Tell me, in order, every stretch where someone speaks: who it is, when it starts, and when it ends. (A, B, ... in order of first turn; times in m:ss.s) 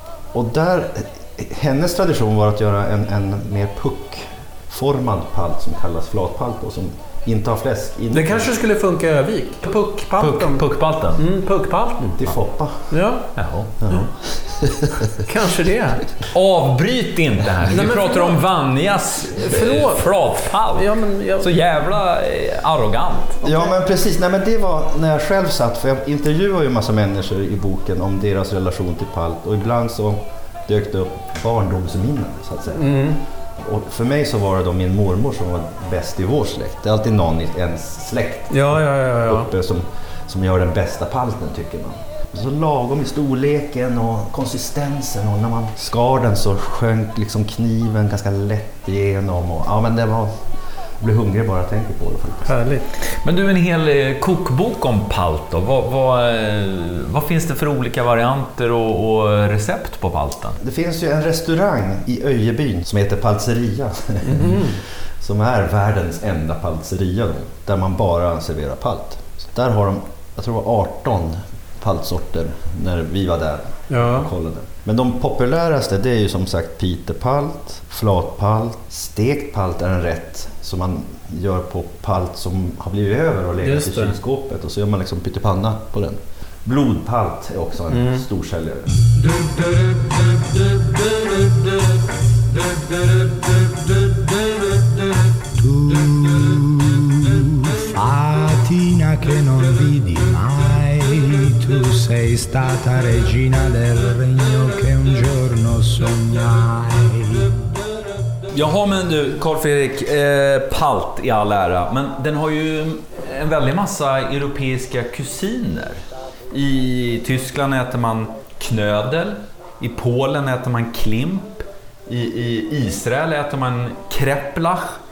0:00.3-0:08.5 A
0:08.1-0:10.6 B
0:10.2-0:11.2 C
0:11.2-0:12.2 B
0:12.2-0:12.9 A
0:12.9-0:13.3 B
0:13.4-0:13.8 C
0:13.8-0:15.1 A
0:15.2-0:16.0 B
0:16.3-0:23.4 C
0:17.7-0:18.4 B
0:19.3-0:20.2 B
0:20.7-0:21.5 B
0:23.4-0:32.9 A
0:23.4-0:23.7 B
0:32.7-0:33.2 B
0:33.6-0:50.4 A
0:38.5-0:39.5 B
0:51.0-0:52.5 A
0:52.4-0:52.9 B
0:53.0-1:00.6 C
1:00.6-1:29.0 A
1:04.2-1:04.8 B
1:13.9-1:14.3 B
1:23.6-1:24.1 B
1:27.9-1:28.2 B
1:35.4-1:47.5 D
1:48.5-2:05.0 C